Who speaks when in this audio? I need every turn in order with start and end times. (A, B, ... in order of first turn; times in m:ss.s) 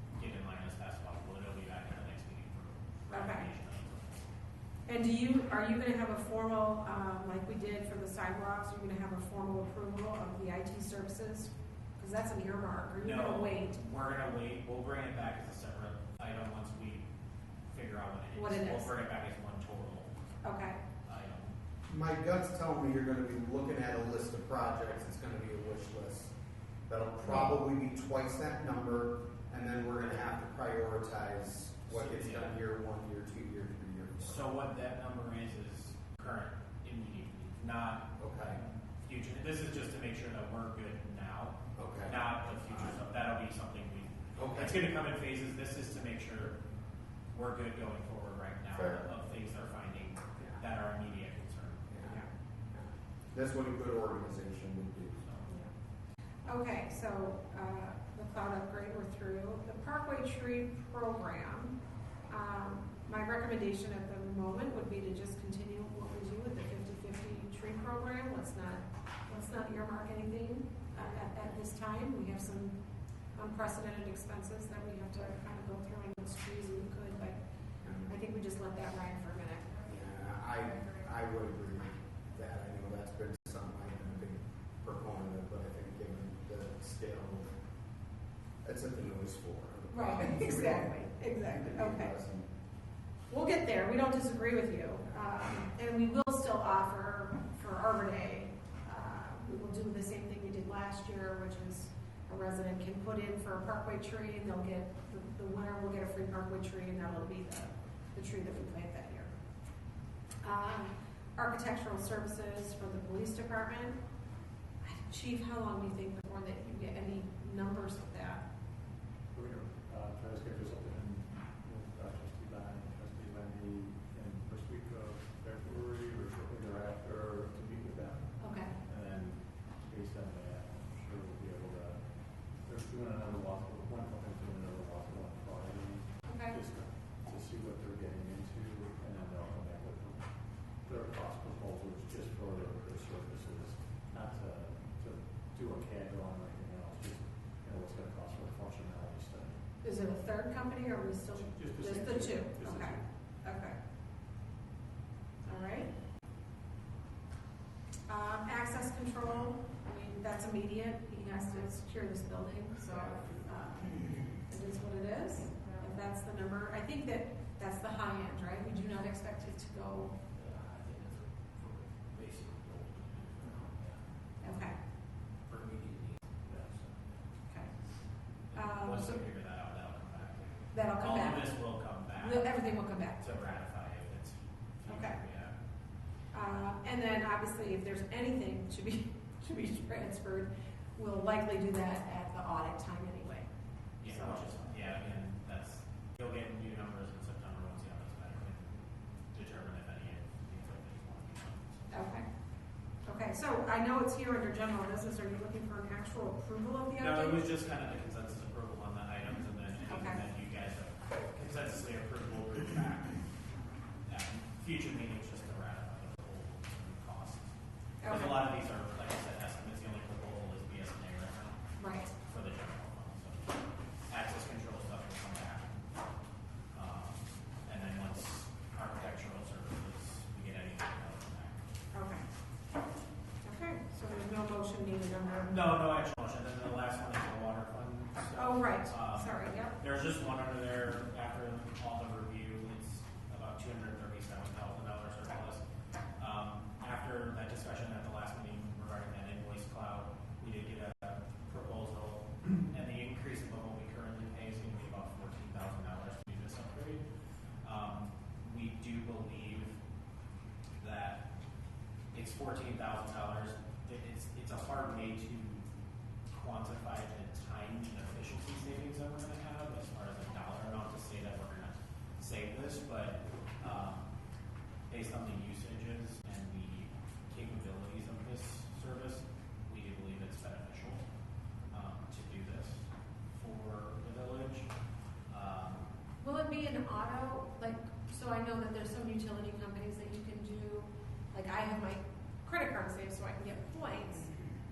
0:00.2-0:04.3 A
0:03.1-0:03.5 B
0:04.9-0:13.8 B
0:13.0-0:17.0 A
0:17.7-0:20.1 A
0:18.4-0:18.9 B
0:20.4-0:20.8 B
0:21.0-0:21.5 A
0:21.9-0:26.3 C
0:26.9-0:34.5 C
0:27.2-0:27.6 B
0:31.9-0:32.6 A
0:34.2-0:46.6 A
0:38.2-0:38.6 C
0:41.8-0:43.0 C
0:44.4-0:44.8 C
0:47.3-0:51.9 A
0:48.7-0:49.0 C
0:51.9-0:52.2 C
0:52.0-0:52.3 B
0:52.7-0:55.3 C
0:56.4-1:01.7 B
1:02.3-1:12.7 B
1:13.4-1:17.4 B
1:17.8-1:18.2 C
1:18.1-1:20.0 B
1:19.9-1:27.5 C
1:20.6-1:21.0 B
1:28.6-1:32.5 C
1:29.9-1:32.2 B
1:33.3-1:49.3 B
1:50.4-1:54.0 B
1:54.8-1:58.4 B
1:59.3-2:12.0 D
2:08.4-2:08.8 B
2:12.6-2:20.3 D
2:16.3-2:16.6 B
2:20.8-2:29.6 D
2:29.8-2:33.8 B
2:31.4-2:33.0 D
2:35.4-2:35.9 B
2:38.1-2:50.1 B
2:50.4-2:54.0 E
2:54.4-2:54.8 B
2:55.5-2:56.1 E
2:58.5-3:02.5 A
2:58.6-2:59.2 B
3:00.7-3:01.6 B
3:02.2-3:03.2 B
3:03.2-3:05.6 A
3:04.9-3:05.2 B
3:06.3-3:13.5 B
3:14.0-3:18.8 A
3:14.1-3:14.7 B
3:19.3-3:22.0 A
3:21.9-3:22.3 B
3:23.1-3:27.5 B
3:27.0-3:33.2 A
3:29.9-3:30.2 B
3:34.1-3:37.5 A
3:38.0-3:38.4 B
3:38.1-3:41.6 A
3:41.8-3:42.1 B
3:42.2-3:43.5 A
3:44.1-3:45.8 A
3:46.7-3:51.6 A
3:51.9-3:52.2 B
3:53.4-3:55.5 B
3:55.4-4:05.6 A
3:58.4-3:59.8 B
4:06.2-4:17.0 A
4:17.6-4:19.8 A
4:20.8-4:21.2 A
4:22.1-4:25.6 A
4:26.3-4:34.1 A
4:34.9-4:41.0 A
4:41.7-4:44.7 A
4:45.3-4:45.9 A
4:46.2-4:54.3 B